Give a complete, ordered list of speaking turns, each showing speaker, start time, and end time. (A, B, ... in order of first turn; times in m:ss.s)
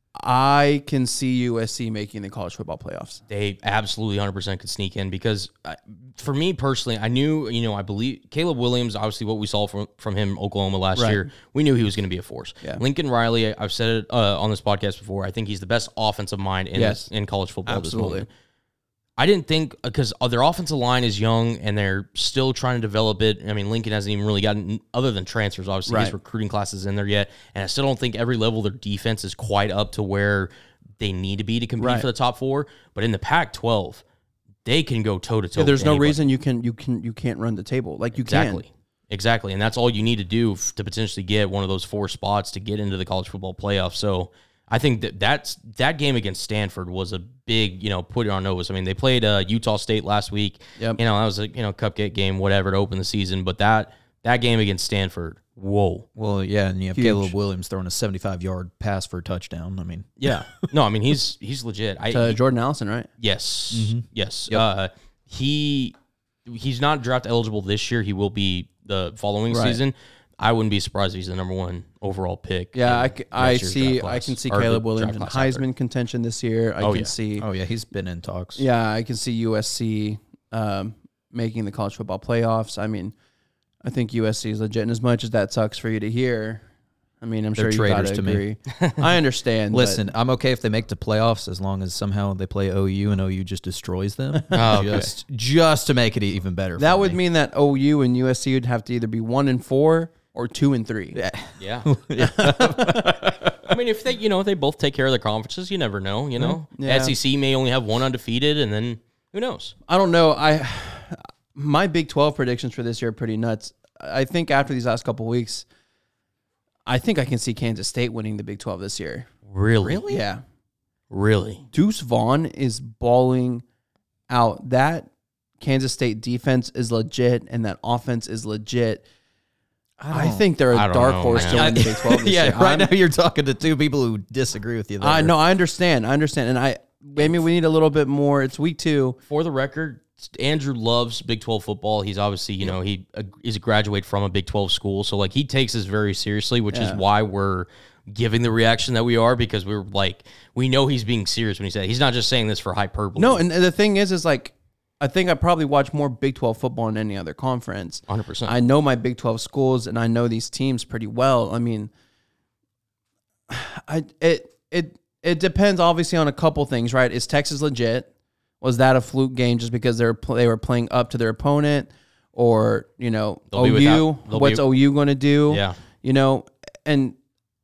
0:00.2-0:03.2 A
0:03.3-0:18.3 B
0:11.0-0:11.2 A
0:16.7-0:17.1 A
0:17.7-0:18.3 A
0:19.2-0:34.0 B
0:25.9-0:26.2 A
0:31.8-0:32.1 A
0:34.6-0:36.2 B
0:35.6-0:38.6 A
0:38.2-0:56.1 B
0:56.2-1:00.3 C
0:57.0-0:57.3 A
1:00.2-1:02.4 B
1:02.1-1:03.1 A
1:03.2-1:05.9 B
1:03.7-1:04.6 C
1:06.5-1:15.6 B
1:09.5-1:09.8 A
1:12.7-1:17.5 A
1:16.8-1:17.1 B
1:17.4-1:18.6 C
1:18.6-1:23.1 A
1:23.8-1:26.6 A
1:27.2-1:30.1 A
1:27.6-1:28.4 C
1:29.7-1:37.2 C
1:34.4-1:35.0 A
1:34.5-1:35.1 B
1:36.8-1:41.2 A
1:41.1-1:43.8 C
1:41.6-1:41.9 B
1:42.2-1:43.1 A
1:43.6-1:49.7 B
1:46.6-1:47.2 A
1:49.9-1:55.7 A
1:56.9-1:59.3 A
1:59.5-2:00.0 B
1:59.8-2:00.2 C
2:00.1-2:00.4 A
2:01.1-2:01.6 B
2:01.7-2:03.6 A
2:04.3-2:05.1 A
2:05.6-2:09.0 A
2:10.0-2:10.5 C
2:10.0-2:12.9 A
2:10.7-2:11.7 B
2:11.4-2:15.4 C
2:15.0-2:19.2 A
2:19.3-2:33.4 B
2:26.7-2:27.0 A
2:33.2-2:41.9 A
2:38.1-2:38.6 B
2:43.5-2:48.1 A
2:48.6-2:57.2 A
2:53.5-2:54.6 B
2:55.5-2:55.8 B